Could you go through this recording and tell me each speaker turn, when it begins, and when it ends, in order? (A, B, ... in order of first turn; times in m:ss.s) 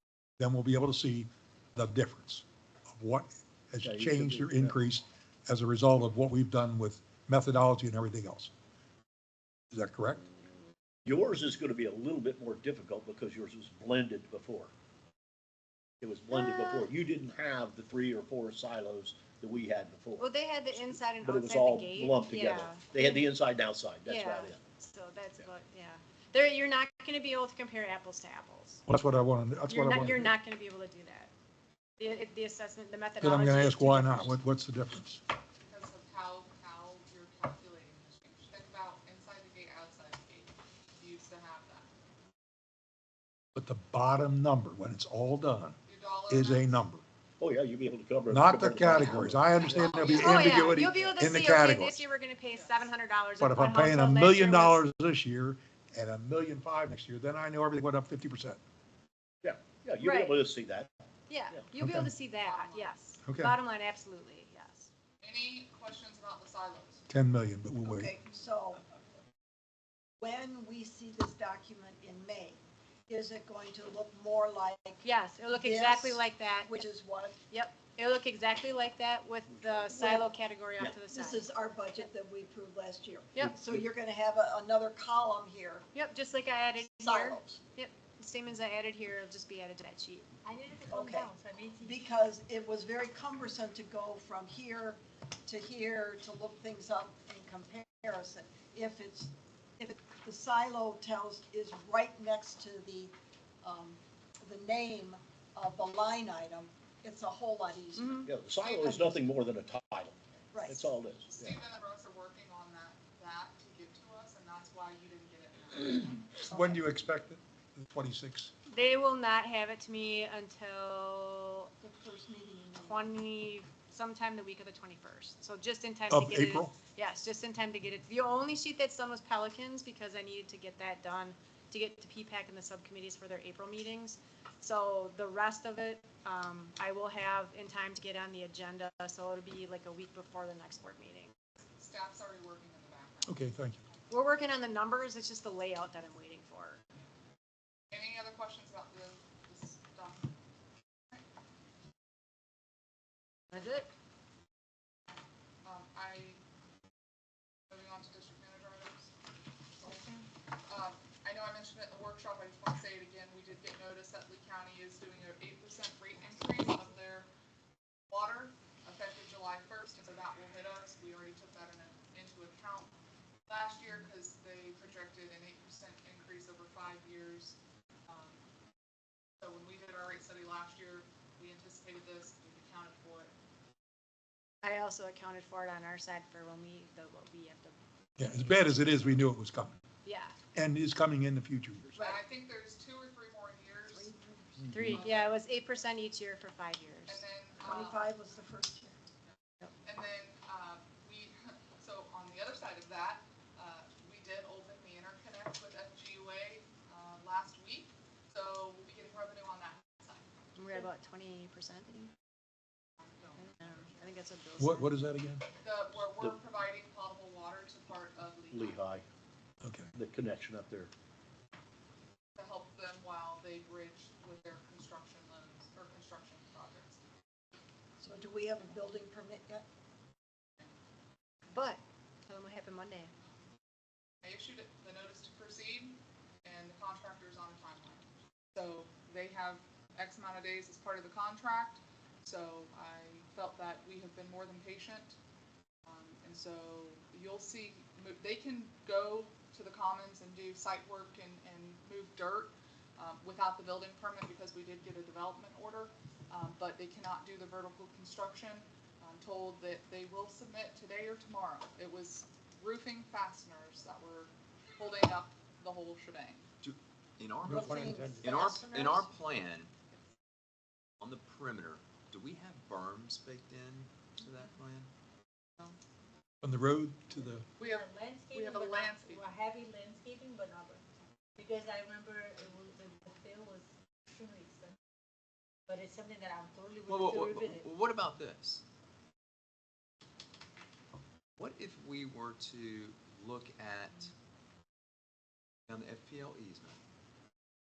0:00.4-0:08.5 A
0:03.8-0:04.8 B
0:09.7-0:10.2 A
0:11.0-0:14.7 B
0:16.0-0:24.6 B
0:16.3-0:16.8 C
0:20.2-0:23.2 C
0:24.0-0:28.8 C
0:28.9-0:30.3 A
0:29.7-0:31.3 C
0:32.0-0:34.4 C
0:33.2-0:35.2 A
0:35.6-0:41.9 D
0:43.6-0:45.8 A
0:45.8-0:46.8 D
0:46.3-0:47.0 A
0:47.4-0:50.4 B
0:48.3-0:52.0 A
0:49.6-0:50.7 D
0:50.1-0:54.8 C
0:52.5-0:52.9 D
0:53.4-0:58.6 A
0:59.4-1:00.9 B
1:00.0-1:00.4 C
1:01.3-1:04.9 C
1:01.8-1:02.1 A
1:02.4-1:02.9 D
1:03.2-1:03.6 A
1:05.2-1:07.0 D
1:07.1-1:08.1 A
1:07.8-1:08.8 E
1:10.2-1:15.0 E
1:15.0-1:16.7 C
1:15.5-1:17.4 E
1:17.5-1:21.4 C
1:19.9-1:20.3 E
1:21.1-1:25.8 E
1:25.9-1:30.3 C
1:27.0-1:27.6 E
1:30.4-1:32.0 F
1:30.9-1:49.1 E
1:48.0-1:48.3 C
1:48.3-1:51.6 B
1:48.8-1:49.1 D
1:50.5-1:50.9 E
1:51.3-1:56.4 D
1:56.4-1:56.9 E
1:56.4-1:58.5 A
1:58.7-2:01.7 C
2:01.8-2:03.1 E
2:02.8-2:21.3 C
2:06.1-2:06.7 A
2:21.8-2:24.0 D
2:23.3-2:23.8 A
2:24.1-2:26.8 C
2:27.9-2:30.3 D
2:33.5-2:33.9 C
2:35.6-2:36.4 D
2:37.7-2:39.1 D
2:39.8-2:40.1 D
2:40.7-2:47.3 D
2:48.1-2:52.9 D
2:53.5-2:58.4 D
2:59.4-3:03.3 D
3:04.6-3:07.8 C
3:08.2-3:09.8 A
3:10.0-3:10.4 C
3:10.5-3:11.9 A
3:11.9-3:12.2 E
3:11.9-3:14.1 D
3:13.9-3:14.6 E
3:14.7-3:15.0 A
3:14.7-3:17.2 C
3:14.9-3:15.3 D
3:17.1-3:18.1 D
3:17.6-3:19.0 E
3:19.2-3:30.3 D
3:30.6-3:32.1 C
3:33.0-3:34.0 D
3:33.4-3:34.9 C
3:34.6-3:35.4 A
3:35.6-3:38.8 D
3:38.5-3:39.0 B
3:39.6-3:39.9 A
3:39.9-3:40.9 B
3:42.4-3:47.0 D
3:48.0-3:49.6 E
3:51.5-3:53.1 C
3:54.2-4:05.2 D
4:05.8-4:26.4 D
4:26.6-4:29.7 G
4:27.4-4:28.3 A
4:27.5-4:29.1 E
4:31.0-4:34.9 G
4:36.4-4:37.5 A
4:37.6-4:39.2 D
4:37.6-4:40.8 F
4:41.4-4:44.8 F
4:45.7-4:47.6 F
4:46.8-4:48.6 G
4:51.4-4:54.1 G
4:55.7-4:56.8 G